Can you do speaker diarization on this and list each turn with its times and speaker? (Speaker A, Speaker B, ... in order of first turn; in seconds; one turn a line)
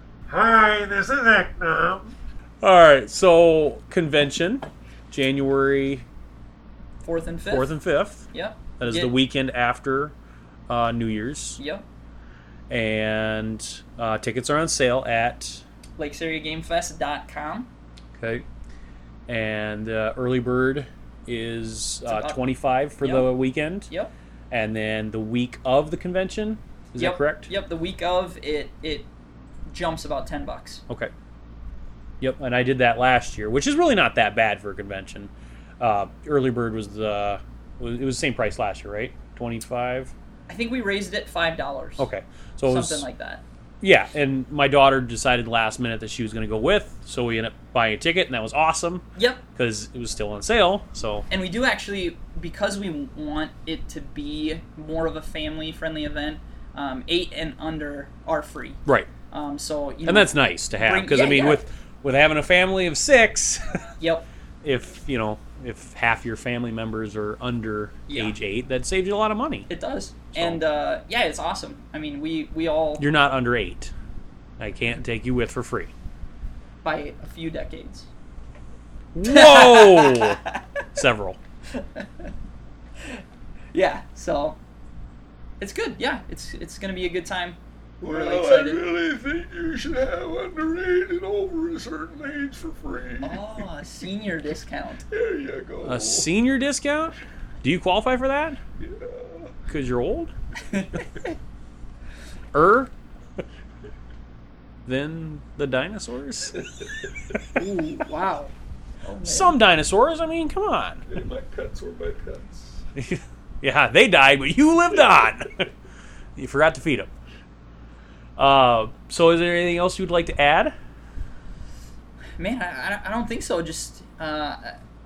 Speaker A: 0.3-2.1
Speaker B: 2.6-6.0
Speaker C: 7.0-7.7
Speaker B: 7.5-10.1
Speaker C: 8.3-9.1
Speaker B: 10.7-11.6
Speaker C: 11.6-11.8
Speaker B: 12.7-15.6
Speaker C: 16.0-17.7
Speaker B: 18.1-18.4
Speaker B: 19.3-23.9
Speaker C: 22.1-22.4
Speaker C: 23.0-23.3
Speaker B: 24.5-27.5
Speaker C: 27.0-29.1
Speaker C: 29.7-30.8
Speaker B: 32.2-40.1
Speaker C: 40.5-42.1
Speaker B: 42.0-43.0
Speaker C: 42.6-43.4
Speaker B: 43.8-51.2
Speaker C: 49.1-49.4
Speaker C: 51.3-61.6
Speaker B: 60.0-63.6
Speaker C: 64.0-64.2
Speaker B: 64.6-69.7
Speaker C: 68.1-68.3
Speaker C: 69.7-73.0
Speaker B: 70.3-70.6
Speaker B: 73.0-73.9
Speaker B: 74.6-75.9
Speaker C: 76.8-78.1
Speaker B: 79.1-80.4
Speaker C: 79.2-80.6
Speaker B: 80.9-81.4
Speaker C: 81.7-82.3
Speaker C: 83.7-84.6
Speaker C: 85.6-88.8
Speaker A: 88.0-93.4
Speaker C: 93.2-95.0
Speaker A: 95.1-96.3
Speaker B: 95.8-98.6
Speaker A: 98.8-99.5
Speaker B: 99.7-100.3
Speaker C: 100.7-101.3
Speaker B: 102.5-102.9
Speaker B: 104.8-106.6
Speaker C: 107.5-108.5
Speaker C: 109.0-109.6
Speaker B: 109.2-111.0
Speaker A: 111.1-112.8
Speaker B: 113.0-115.7
Speaker B: 116.3-117.1
Speaker B: 118.4-120.7
Speaker C: 122.4-124.8